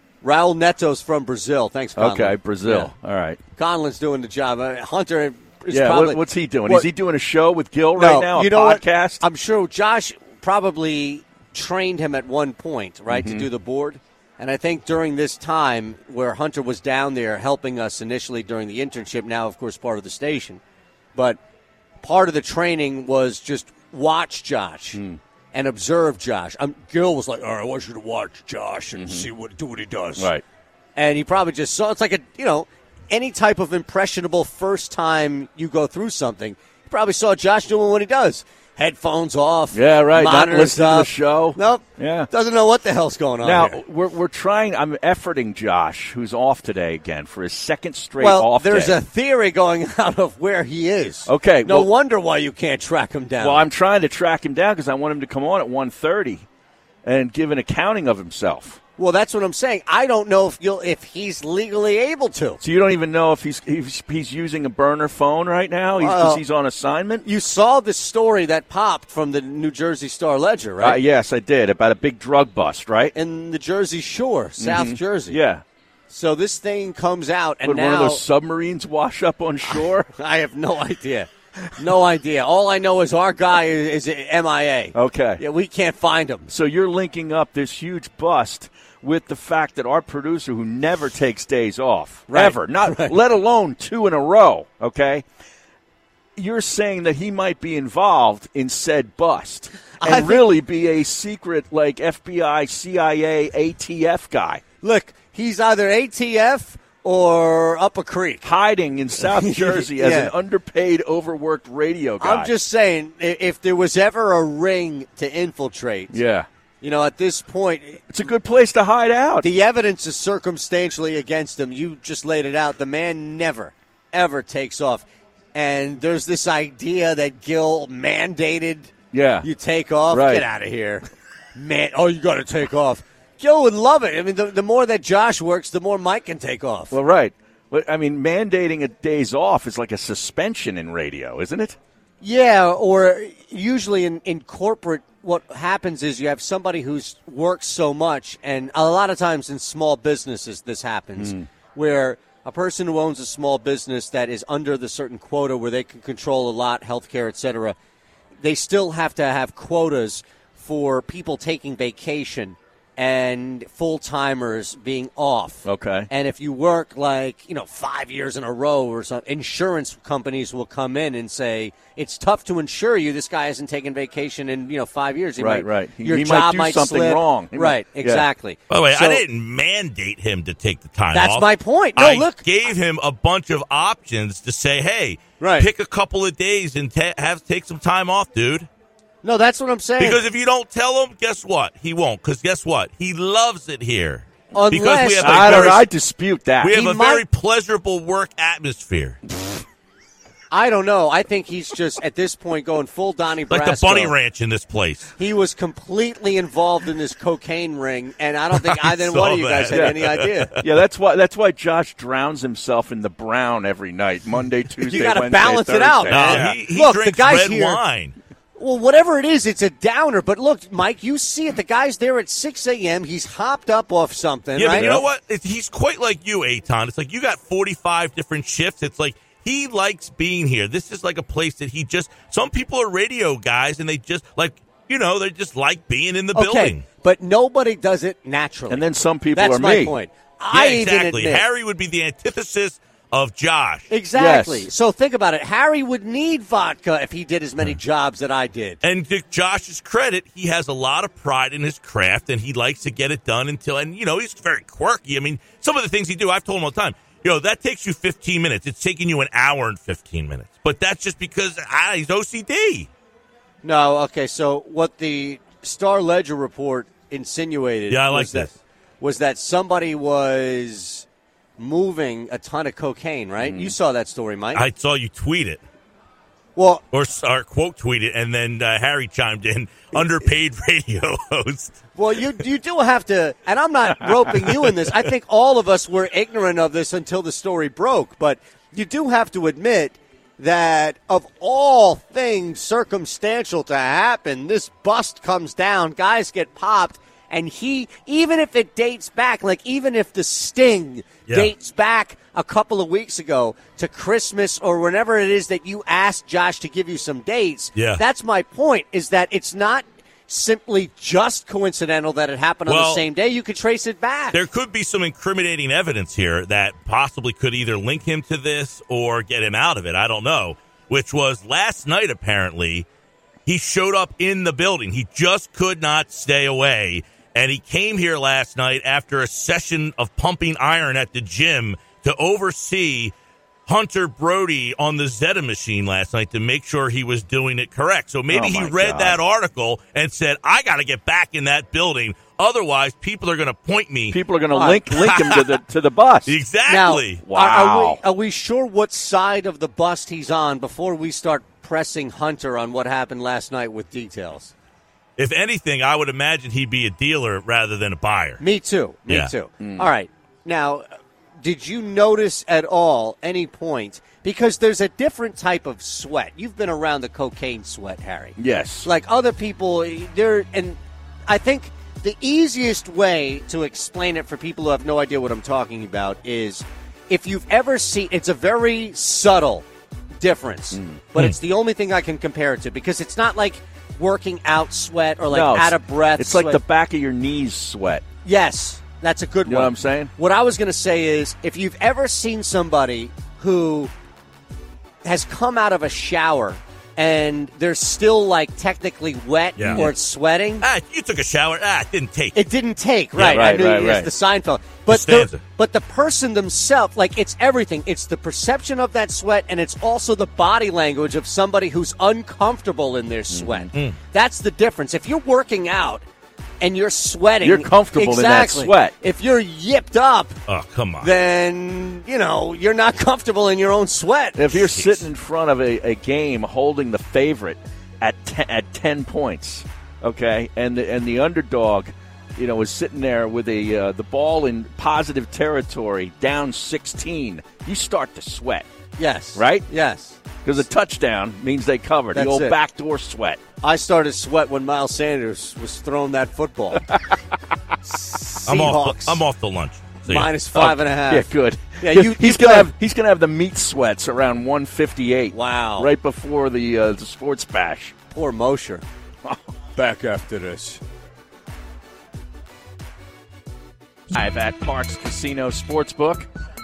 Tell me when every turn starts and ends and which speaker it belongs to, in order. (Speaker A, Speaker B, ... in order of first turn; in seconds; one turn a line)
Speaker A: 0.2-2.9
Speaker B: 2.0-3.4
Speaker A: 3.6-6.9
Speaker B: 5.7-9.2
Speaker A: 8.0-20.6
Speaker B: 13.1-13.5
Speaker A: 22.0-25.0
Speaker B: 24.9-25.2
Speaker A: 25.5-30.3
Speaker B: 28.9-29.3
Speaker B: 30.2-30.4
Speaker A: 31.0-43.8
Speaker B: 39.7-42.3
Speaker B: 43.4-49.0
Speaker A: 48.2-53.7
Speaker B: 51.3-51.9
Speaker B: 53.4-56.5
Speaker B: 57.0-58.8
Speaker A: 59.0-62.6
Speaker B: 62.6-67.3
Speaker A: 66.0-66.4
Speaker A: 67.2-71.0
Speaker B: 70.8-73.1
Speaker A: 73.1-75.4
Speaker B: 74.6-75.6
Speaker A: 76.1-78.2
Speaker B: 77.6-80.1
Speaker A: 79.7-86.5
Speaker B: 84.9-85.4
Speaker B: 86.5-95.2
Speaker A: 92.3-93.2
Speaker B: 96.4-104.6
Speaker A: 100.0-100.5
Speaker A: 104.8-108.5
Speaker B: 108.4-112.5
Speaker A: 109.2-110.3
Speaker A: 112.2-116.2
Speaker B: 116.1-116.5
Speaker A: 116.8-118.0
Speaker B: 118.1-119.5
Speaker A: 119.4-128.9
Speaker B: 129.1-129.5
Speaker A: 129.4-131.0
Speaker B: 130.1-130.5
Speaker A: 131.6-137.0
Speaker B: 136.9-141.8
Speaker A: 142.2-157.8
Speaker B: 151.2-151.5
Speaker A: 158.4-179.2
Speaker B: 165.7-166.1
Speaker B: 175.4-178.3
Speaker C: 178.7-188.7
Speaker A: 181.1-182.4
Speaker A: 185.4-185.7
Speaker A: 189.2-190.2
Speaker C: 190.0-195.8
Speaker A: 194.5-195.8
Speaker B: 195.2-196.8
Speaker C: 196.6-199.2
Speaker A: 196.7-197.2
Speaker A: 200.5-204.1
Speaker C: 203.5-205.1
Speaker A: 205.2-210.5
Speaker C: 208.5-210.6
Speaker B: 209.7-210.0
Speaker B: 210.6-216.6
Speaker A: 214.8-217.8
Speaker C: 216.1-218.2
Speaker A: 218.6-225.0
Speaker C: 224.6-236.8
Speaker B: 224.7-225.0
Speaker A: 236.3-241.4
Speaker B: 238.7-240.0
Speaker C: 240.5-243.9
Speaker A: 243.9-248.8
Speaker B: 244.2-244.7
Speaker C: 248.8-262.9
Speaker A: 263.6-271.1
Speaker C: 267.9-268.5
Speaker A: 271.6-274.6
Speaker B: 273.4-273.7
Speaker C: 274.6-275.6
Speaker A: 276.6-276.8
Speaker C: 276.9-281.8
Speaker A: 282.0-314.4
Speaker C: 307.8-308.0
Speaker C: 312.7-313.1
Speaker C: 314.3-322.9
Speaker C: 323.5-333.1
Speaker C: 333.7-344.2
Speaker B: 338.3-339.2
Speaker B: 344.1-346.4
Speaker A: 344.5-345.4
Speaker C: 345.1-345.4
Speaker C: 346.3-347.2
Speaker A: 346.7-354.5
Speaker B: 347.2-348.0
Speaker C: 355.2-358.4
Speaker A: 358.4-360.9
Speaker B: 359.6-359.9
Speaker A: 361.4-379.6
Speaker B: 368.4-368.9
Speaker A: 380.2-386.6
Speaker B: 380.7-381.0
Speaker B: 385.3-388.0
Speaker A: 388.2-393.9
Speaker B: 389.4-390.1
Speaker A: 395.0-400.6
Speaker C: 399.6-399.9
Speaker C: 400.6-402.4
Speaker A: 402.4-416.0
Speaker C: 403.2-403.4
Speaker B: 403.2-404.1
Speaker C: 404.9-405.4
Speaker B: 413.3-413.7
Speaker A: 416.6-420.4
Speaker B: 417.4-418.9
Speaker C: 420.5-421.1
Speaker A: 421.0-425.0
Speaker B: 424.4-438.7
Speaker A: 439.0-440.2
Speaker B: 439.4-439.7
Speaker B: 440.4-443.4
Speaker A: 442.1-442.6
Speaker A: 443.6-446.9
Speaker A: 447.9-449.2
Speaker C: 448.5-450.3
Speaker A: 450.1-452.7
Speaker B: 450.5-457.9
Speaker A: 455.3-455.9
Speaker A: 458.1-458.8
Speaker A: 459.8-460.8
Speaker B: 464.1-466.3